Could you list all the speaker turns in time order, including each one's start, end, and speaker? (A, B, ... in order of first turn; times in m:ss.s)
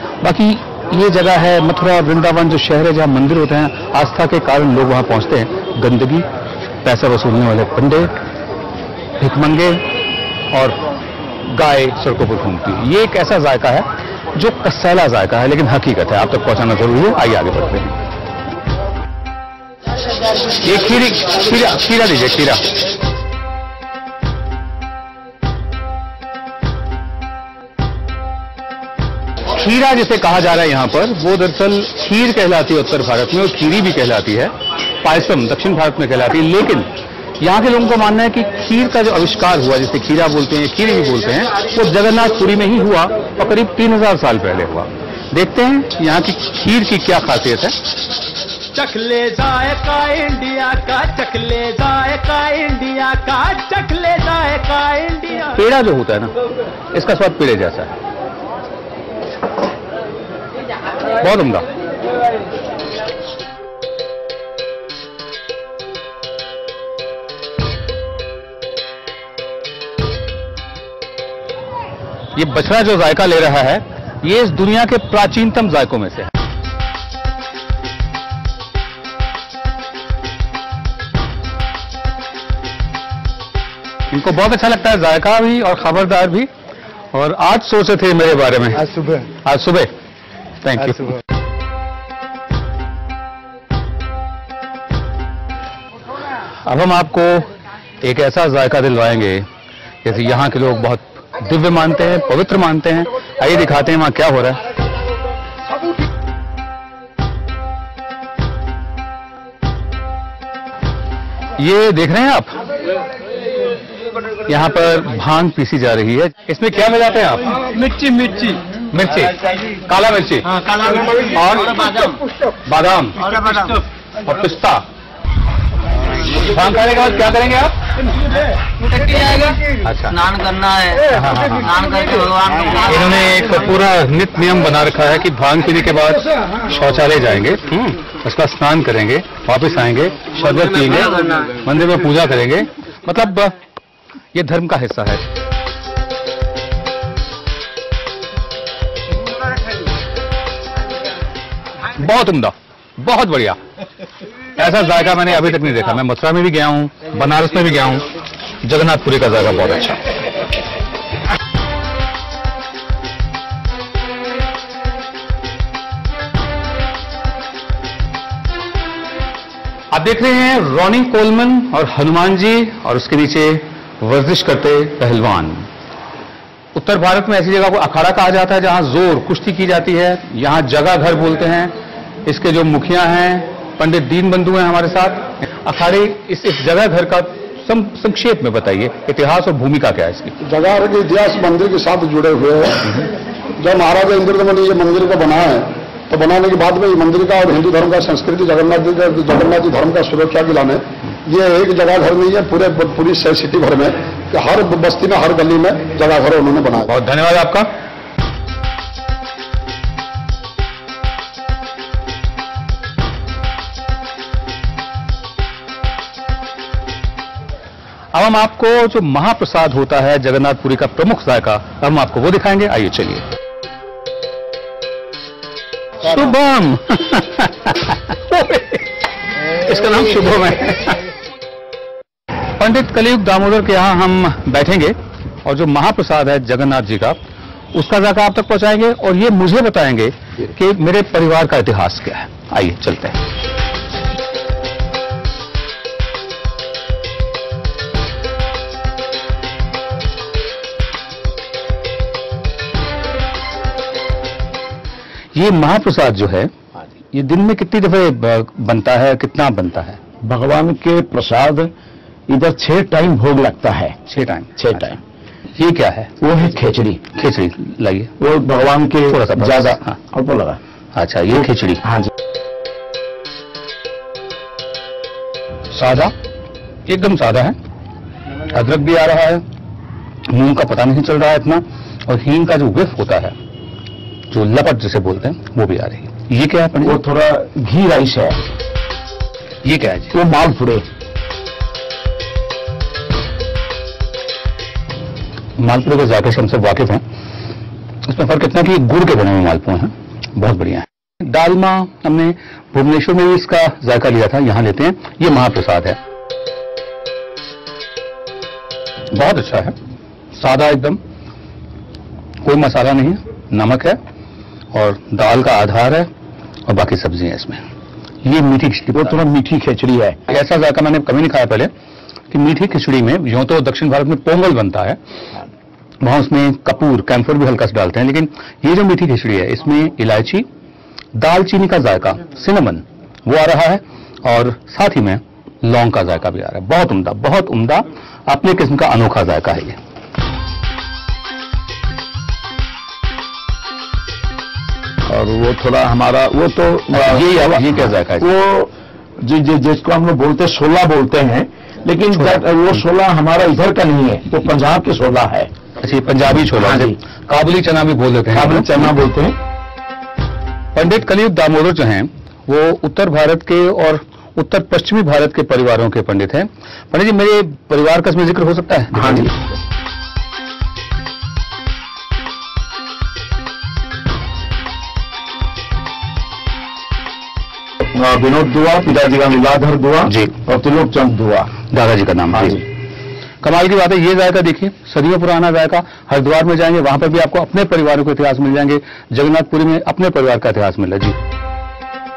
0:00.2-0:06.3 A
0:06.8-0:08.1 A
0:09.2-0:09.8 A
0:10.5-0:10.8 A
0:11.4-0:18.0 A
0:20.6-0:22.6 A
0:29.5-0:47.8 A
0:48.7-0:55.4 B
0:55.4-0:56.3 A
0:56.9-0:57.9 A
1:01.2-1:01.7 A
1:12.4-1:16.3 A
1:24.1-1:26.5 A
1:27.1-1:29.9 A
1:30.6-1:31.2 A
1:36.6-1:37.5 A
1:38.0-1:39.4 A
1:40.0-1:44.6 A
1:51.6-1:52.6 A
1:54.5-1:57.6 A
1:57.7-1:58.6 B
1:58.9-2:03.4 A
2:00.6-2:01.0 C
2:03.5-2:03.8 B
2:04.2-2:04.8 A
2:06.3-2:07.8 A
2:08.9-2:09.6 C
2:09.7-2:10.3 A
2:10.2-2:11.1 C
2:11.0-2:11.8 A
2:11.7-2:12.7 C
2:12.7-2:23.6 A
2:24.3-2:25.2 A
2:31.9-2:33.6 A
2:34.6-2:38.1 A
2:38.6-2:40.1 A
2:49.9-2:55.7 A
2:56.8-3:01.7 A
3:02.3-3:10.3 A
3:10.4-3:13.0 D
3:13.6-3:26.9 D
3:26.8-3:27.7 A
3:38.1-3:43.2 A
3:46.0-3:48.9 A
3:49.5-3:51.0 A
3:52.6-3:57.2 A
3:57.7-4:03.2 A
4:15.4-4:16.5 A
4:17.1-4:20.0 A
4:20.2-4:21.7 E
4:22.3-4:24.0 E
4:24.1-4:25.0 A
4:24.6-4:25.0 E
4:25.6-4:26.1 A
4:26.2-4:27.0 E
4:27.1-4:28.1 A
4:28.2-4:30.6 E
4:29.1-4:30.0 A
4:31.0-4:31.9 A
4:31.8-4:32.1 E
4:35.7-4:36.1 A
4:36.9-4:37.6 A
4:38.5-4:39.4 A
4:40.3-4:43.3 A
4:44.3-4:47.0 A
4:46.8-4:48.4 E
4:49.6-4:50.1 A
4:50.1-4:50.8 E
4:55.6-4:57.0 A
4:58.1-5:06.0 A
5:09.1-5:09.8 A
5:10.3-5:11.0 A
5:12.4-5:14.0 A
5:14.7-5:16.1 A
5:16.7-5:17.6 A
5:18.2-5:19.2 A
5:19.0-5:20.2 E
5:20.3-5:21.7 A
5:22.3-5:25.0 A
5:26.0-5:30.5 A
5:31.2-5:39.8 A
5:45.1-5:55.5 E
5:46.9-5:48.3 A
5:55.8-5:58.9 A
5:56.6-5:57.0 E
5:58.3-5:59.4 E
6:00.8-6:09.3 A
6:09.0-6:09.3 E
6:17.8-6:21.5 E
6:20.1-6:20.4 A
6:21.7-6:22.7 A
6:23.4-6:31.2 A